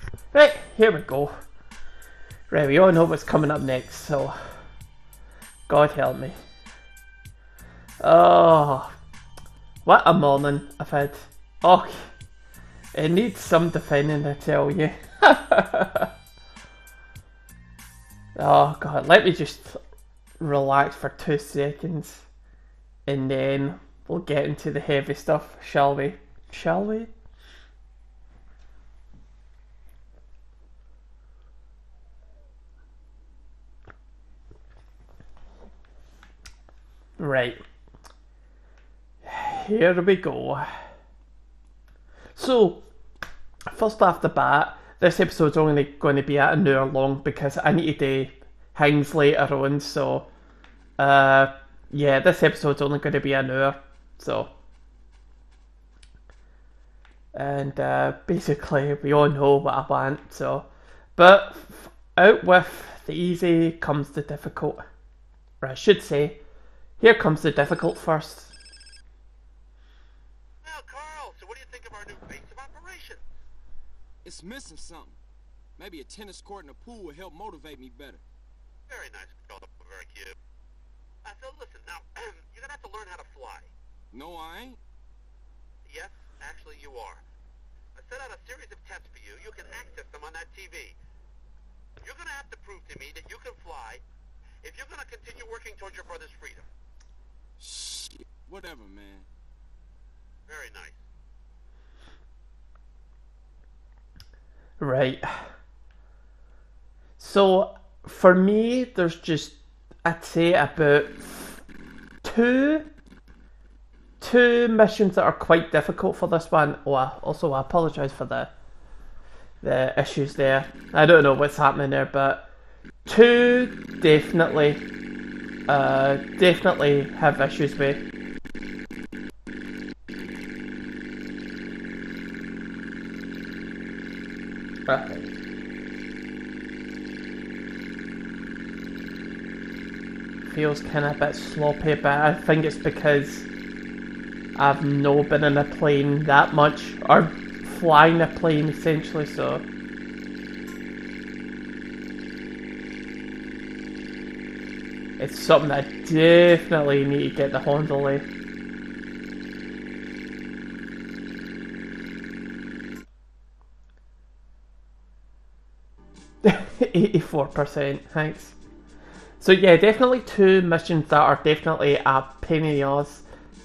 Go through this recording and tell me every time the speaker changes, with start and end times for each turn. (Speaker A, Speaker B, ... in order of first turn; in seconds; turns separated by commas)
Speaker A: 0.3-1.3, Speaker A: 2.5-4.4, Speaker A: 5.7-6.4, Speaker A: 8.0-8.9, Speaker A: 9.8-12.1, Speaker A: 12.9-16.1, Speaker A: 18.4-19.8, Speaker A: 20.4-22.2, Speaker A: 23.1-27.1, Speaker A: 37.2-37.6, Speaker A: 39.2-40.7, Speaker A: 42.4-42.9, Speaker A: 43.7-50.3, Speaker A: 51.0-54.5, Speaker A: 57.4-64.8, Speaker A: 65.6-66.4, Speaker A: 67.0-68.5, Speaker B: 70.6-73.2, Speaker C: 74.2-75.2, Speaker C: 75.8-78.2, Speaker B: 78.9-80.4, Speaker B: 81.2-83.7, Speaker C: 84.1-84.8, Speaker B: 85.9-87.2, Speaker B: 88.0-91.0, Speaker B: 92.0-94.0, Speaker B: 94.6-96.7, Speaker C: 97.6-99.3, Speaker B: 100.5-101.0, Speaker A: 104.8-105.4, Speaker A: 107.2-111.6, Speaker A: 112.2-112.9, Speaker A: 114.2-118.5, Speaker A: 119.6-122.5, Speaker A: 123.1-124.8, Speaker A: 125.7-128.0, Speaker A: 134.9-135.3, Speaker A: 140.4-143.5, Speaker A: 144.6-149.7, Speaker A: 155.2-158.2, Speaker A: 166.4-168.6, Speaker A: 169.4-173.2